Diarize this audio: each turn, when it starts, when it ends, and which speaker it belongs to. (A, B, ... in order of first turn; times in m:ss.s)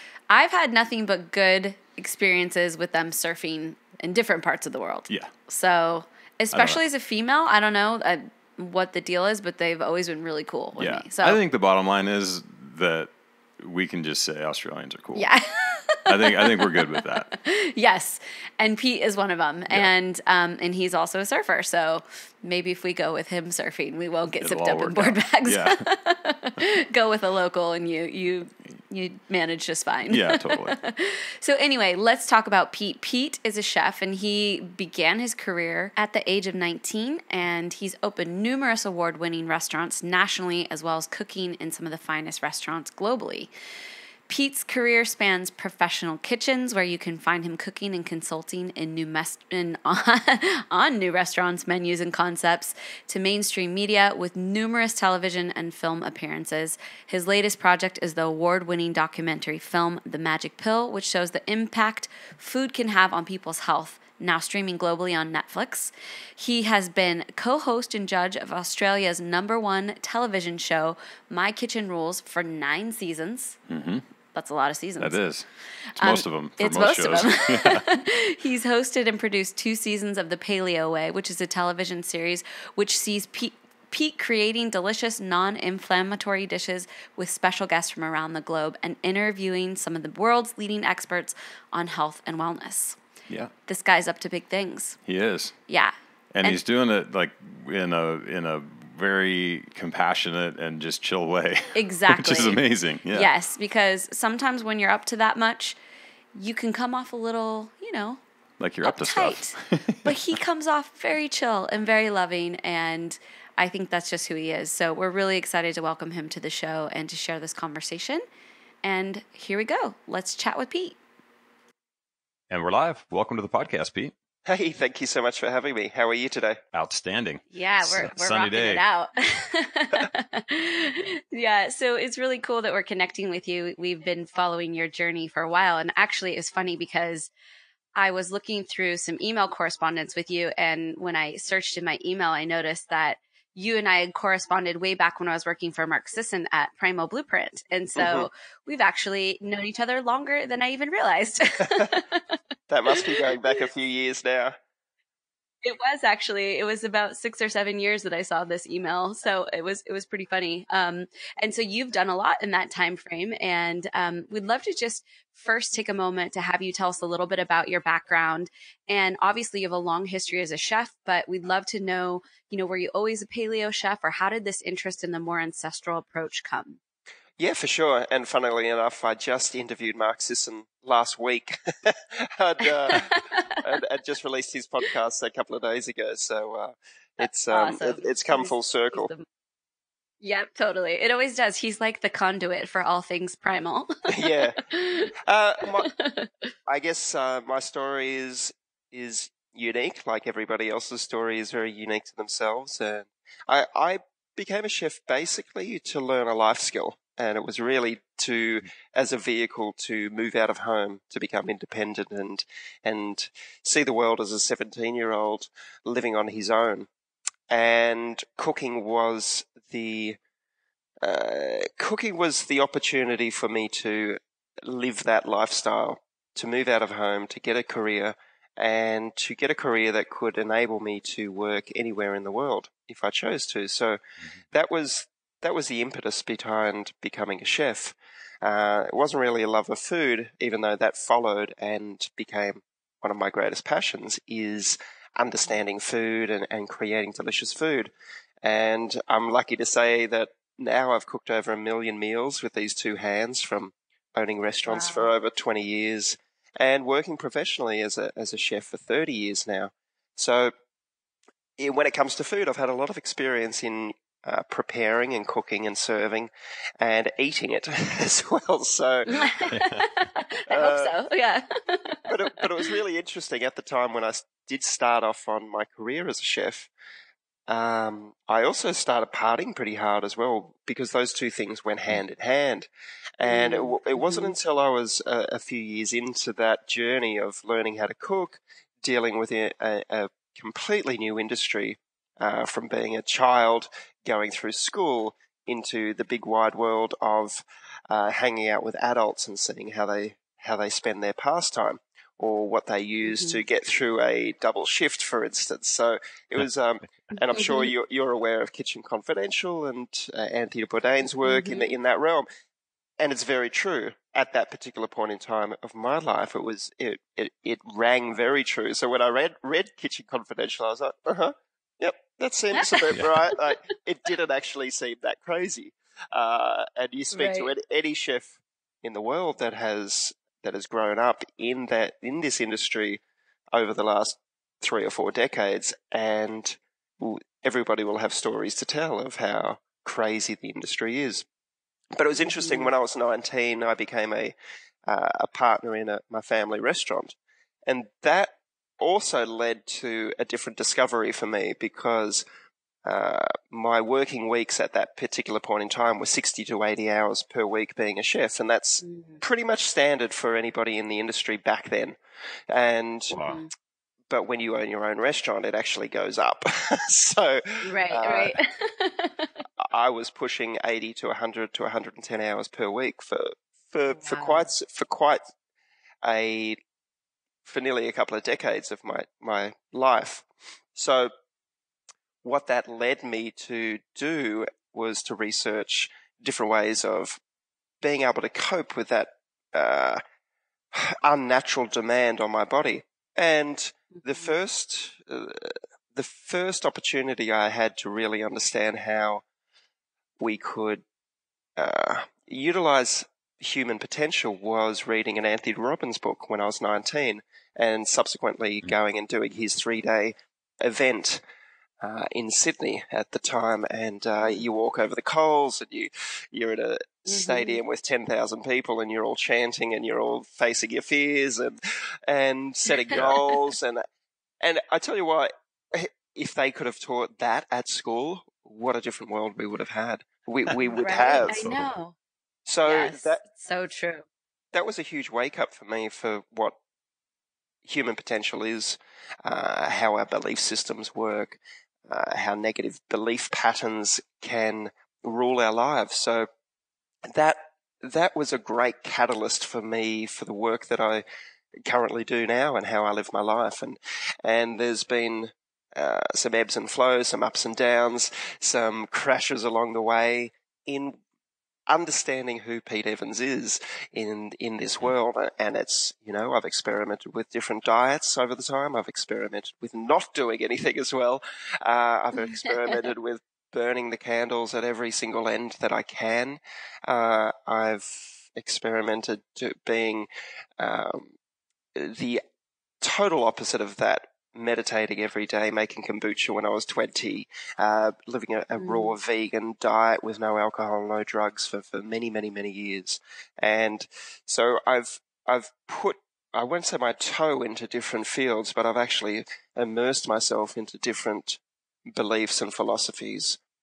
0:00.3-0:11.4 A
0:06.5-0:06.8 B
0:10.8-0:15.3 B
0:15.2-0:43.5 A
0:16.1-0:17.3 B
0:24.4-0:25.8 B
0:30.1-0:30.8 B
0:44.3-1:13.6 A
1:13.7-1:14.0 B
1:14.3-1:15.2 A
1:15.0-1:17.8 B
1:16.0-1:33.0 A
1:33.7-1:35.0 A
1:35.1-1:35.5 B
1:35.7-1:36.6 A
1:36.3-1:43.3 B
1:41.8-1:42.6 A
1:43.1-1:45.8 A
1:46.4-1:48.2 A
1:48.6-1:50.1 B
1:48.8-1:58.2 A
1:58.8-2:01.0 A
2:02.5-2:04.1 B
2:04.5-2:06.6 C
2:06.7-2:08.8 B
2:07.5-2:17.3 A
2:18.0-2:32.3 A
2:28.0-2:28.3 C
2:32.7-2:34.6 C
2:32.9-2:33.2 A
2:35.6-2:56.8 A
2:57.4-3:09.1 C
3:02.9-3:03.6 A
3:07.5-3:09.2 A
3:10.2-3:15.1 A
3:14.1-3:14.6 C
3:15.2-3:15.9 C
3:15.8-3:16.3 A
3:16.7-3:36.9 C
3:37.5-3:40.2 C
3:41.0-3:54.0 C
3:54.5-4:07.9 C
4:08.4-4:20.5 C
4:14.7-4:15.1 A
4:21.6-4:29.3 C
4:29.1-4:32.0 A
4:30.5-4:30.9 C
4:32.1-4:36.7 C
4:37.5-5:12.3 C
4:43.2-4:44.4 A
5:03.1-5:03.4 A
5:07.2-5:07.7 A
5:11.2-5:11.7 A
5:13.0-5:33.0 C
5:22.6-5:23.2 A
5:27.2-5:27.5 A
5:33.5-5:41.3 C
5:42.0-5:52.2 C
5:42.2-5:42.7 A
5:52.8-6:03.2 C
5:58.8-5:59.2 A
6:03.1-6:03.4 B
6:03.2-6:03.5 A
6:04.1-6:08.4 C
6:07.6-6:09.3 A
6:09.6-6:15.2 C
6:13.9-6:14.5 A
6:16.0-6:16.6 C
6:17.4-6:21.1 C
6:22.2-6:27.2 C
6:27.8-6:30.0 C
6:30.7-6:39.2 C
6:34.0-6:34.2 A
6:40.2-6:40.8 C
6:41.6-6:51.2 C
6:51.8-7:03.8 C
6:57.1-6:57.6 A
7:03.1-7:03.4 A
7:04.4-7:11.4 C
7:10.5-7:10.8 B
7:10.8-7:12.0 A
7:12.5-7:13.2 C
7:12.6-7:14.0 A
7:14.5-7:16.6 C
7:17.6-7:26.3 C
7:27.0-7:31.0 C
7:31.6-7:41.0 C
7:41.7-8:00.1 C
8:00.6-8:01.1 C
8:01.8-8:02.2 C
8:02.8-8:23.4 C
8:08.6-8:08.9 A